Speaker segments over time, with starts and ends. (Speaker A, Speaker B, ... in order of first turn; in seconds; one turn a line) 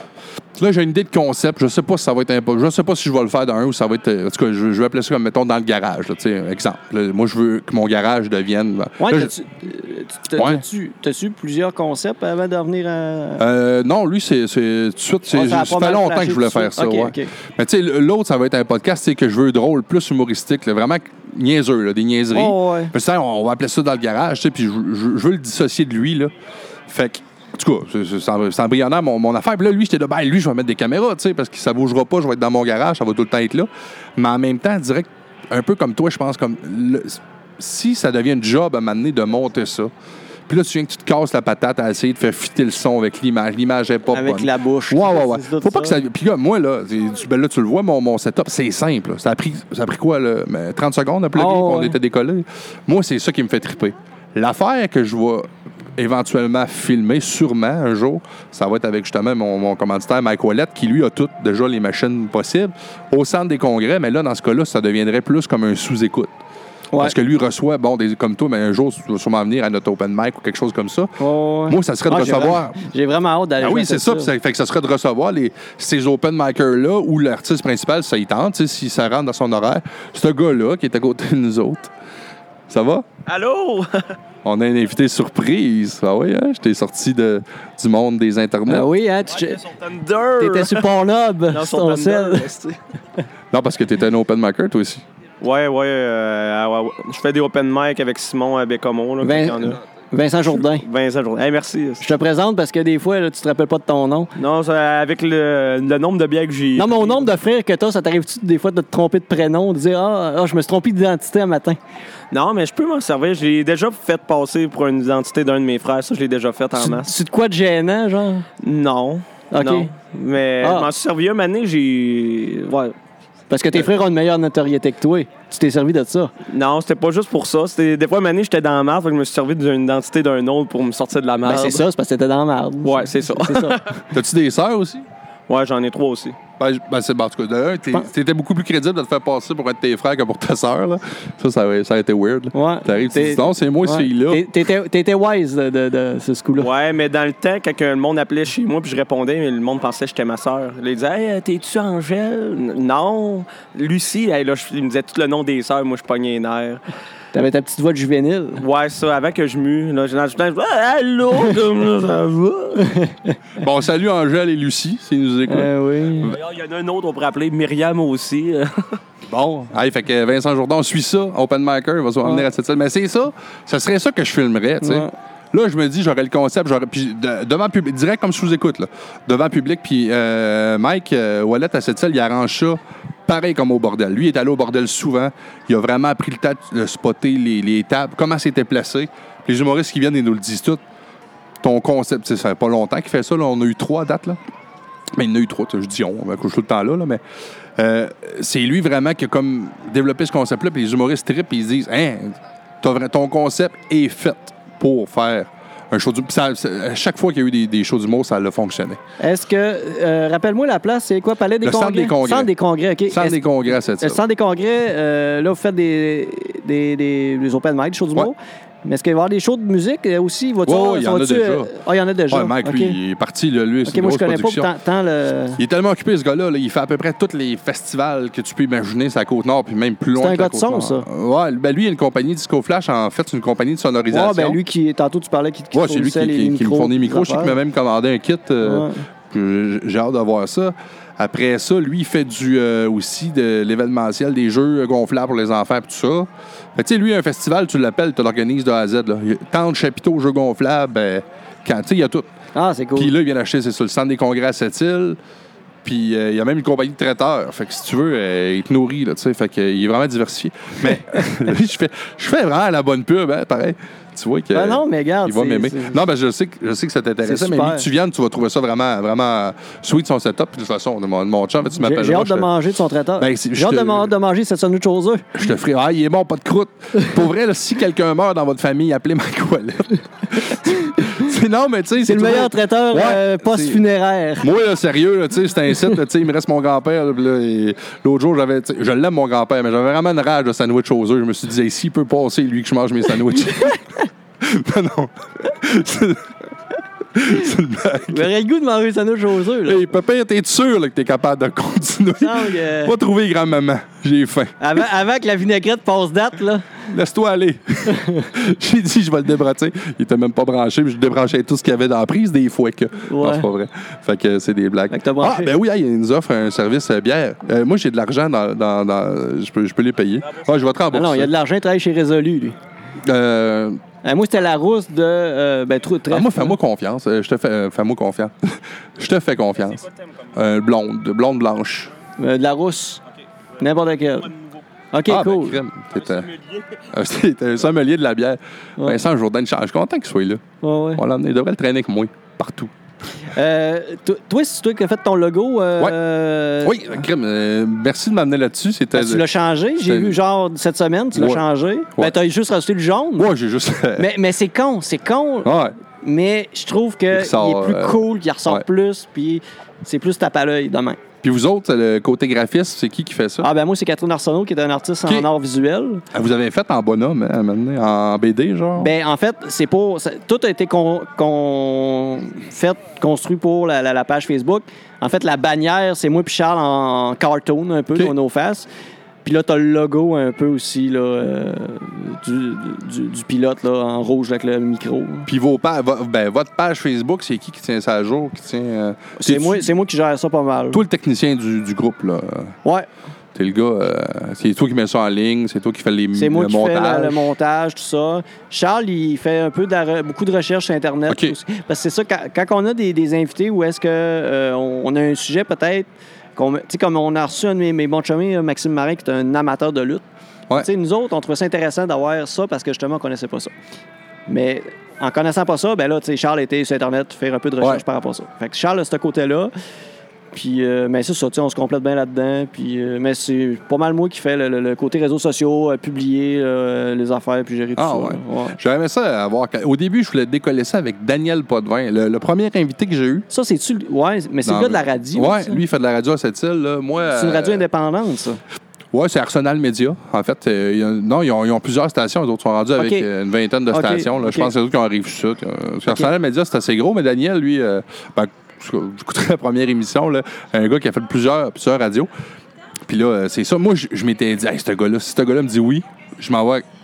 Speaker A: 0.6-9.3
Speaker B: 9.0-13.4
Speaker A: 10.4-10.6
Speaker A: 13.4-26.3
Speaker B: 15.3-17.3
Speaker B: 22.3-22.9
Speaker A: 26.9-39.9
Speaker A: 40.5-66.3
Speaker B: 44.1-46.0
Speaker B: 51.3-52.0
Speaker A: 67.0-71.1
Speaker B: 71.2-74.3
Speaker A: 71.7-72.8
Speaker A: 73.6-81.9
Speaker A: 82.7-83.1
Speaker C: 83.3-84.1
Speaker A: 84.5-88.9
Speaker B: 88.7-89.6
Speaker C: 89.4-90.9
Speaker B: 90.4-92.5
Speaker C: 91.5-92.8
Speaker A: 93.5-95.0
Speaker C: 95.4-99.8
Speaker B: 99.2-100.8
Speaker C: 100.5-102.1
Speaker B: 102.0-104.3
Speaker C: 104.4-107.3
Speaker B: 106.8-111.8
Speaker C: 112.3-117.1
Speaker B: 116.8-118.5
Speaker C: 118.6-123.0
Speaker B: 119.5-119.9
Speaker B: 120.6-120.9
Speaker B: 123.5-126.3
Speaker C: 126.5-131.8
Speaker B: 131.4-133.8
Speaker C: 132.8-134.0
Speaker A: 134.1-135.1
Speaker C: 135.5-136.4
Speaker A: 136.6-144.5
Speaker B: 142.6-146.7
Speaker C: 146.6-156.8
Speaker B: 157.3-158.6
Speaker C: 158.6-162.9
Speaker B: 162.8-163.4
Speaker A: 163.6-166.4
Speaker B: 165.5-166.4
Speaker C: 166.3-169.0
Speaker A: 169.3-190.8
Speaker B: 174.8-175.1
Speaker A: 191.6-194.4
Speaker A: 195.2-197.2
Speaker A: 197.8-209.0
Speaker B: 209.2-213.4
Speaker A: 211.6-212.5
Speaker A: 213.1-214.2
Speaker B: 214.0-223.0
Speaker A: 220.7-221.7
Speaker A: 222.3-224.7
Speaker B: 223.9-225.6
Speaker A: 225.6-234.6
Speaker B: 230.2-231.1
Speaker B: 234.1-237.6
Speaker A: 235.7-252.3
Speaker B: 238.6-239.0
Speaker B: 252.5-253.1
Speaker A: 253.0-255.2
Speaker A: 255.8-272.5
Speaker B: 260.8-261.4
Speaker B: 264.5-266.0
Speaker B: 267.2-267.9
Speaker B: 271.8-275.4
Speaker A: 273.2-274.1
Speaker A: 275.4-283.8
Speaker B: 282.0-284.5
Speaker A: 284.4-293.8
Speaker A: 294.4-296.3
Speaker A: 297.1-298.3
Speaker B: 298.1-299.8
Speaker A: 299.6-304.6
Speaker B: 302.2-303.0
Speaker B: 304.6-306.8
Speaker A: 306.9-321.3
Speaker B: 307.9-308.3
Speaker B: 313.1-313.5
Speaker B: 314.9-315.5
Speaker B: 320.9-322.6
Speaker A: 323.0-323.8
Speaker B: 324.0-326.6
Speaker A: 326.1-331.9
Speaker B: 332.2-333.0
Speaker B: 333.6-334.3
Speaker B: 334.9-335.6
Speaker A: 335.1-336.3
Speaker A: 336.9-342.7
Speaker B: 340.6-341.0
Speaker B: 343.3-347.0
Speaker A: 346.6-349.2
Speaker B: 348.9-353.3
Speaker A: 349.9-350.2
Speaker A: 351.1-351.4
Speaker A: 353.2-354.1
Speaker B: 354.0-361.0
Speaker A: 355.4-355.8
Speaker A: 357.1-358.6
Speaker A: 361.2-363.5
Speaker B: 363.4-366.1
Speaker A: 366.1-368.9
Speaker B: 368.8-378.7
Speaker B: 379.2-385.3
Speaker A: 385.3-389.7
Speaker B: 389.2-390.8
Speaker A: 390.7-392.6
Speaker A: 393.4-397.2
Speaker B: 396.1-410.1
Speaker A: 401.1-401.4
Speaker B: 410.6-413.5
Speaker B: 414.3-419.5
Speaker B: 420.3-428.6
Speaker A: 427.8-433.3
Speaker B: 433.3-435.6
Speaker A: 434.4-437.6
Speaker B: 437.1-438.4
Speaker A: 438.9-452.1
Speaker B: 442.8-443.1
Speaker B: 443.7-444.5
Speaker B: 445.9-446.1
Speaker A: 452.9-456.6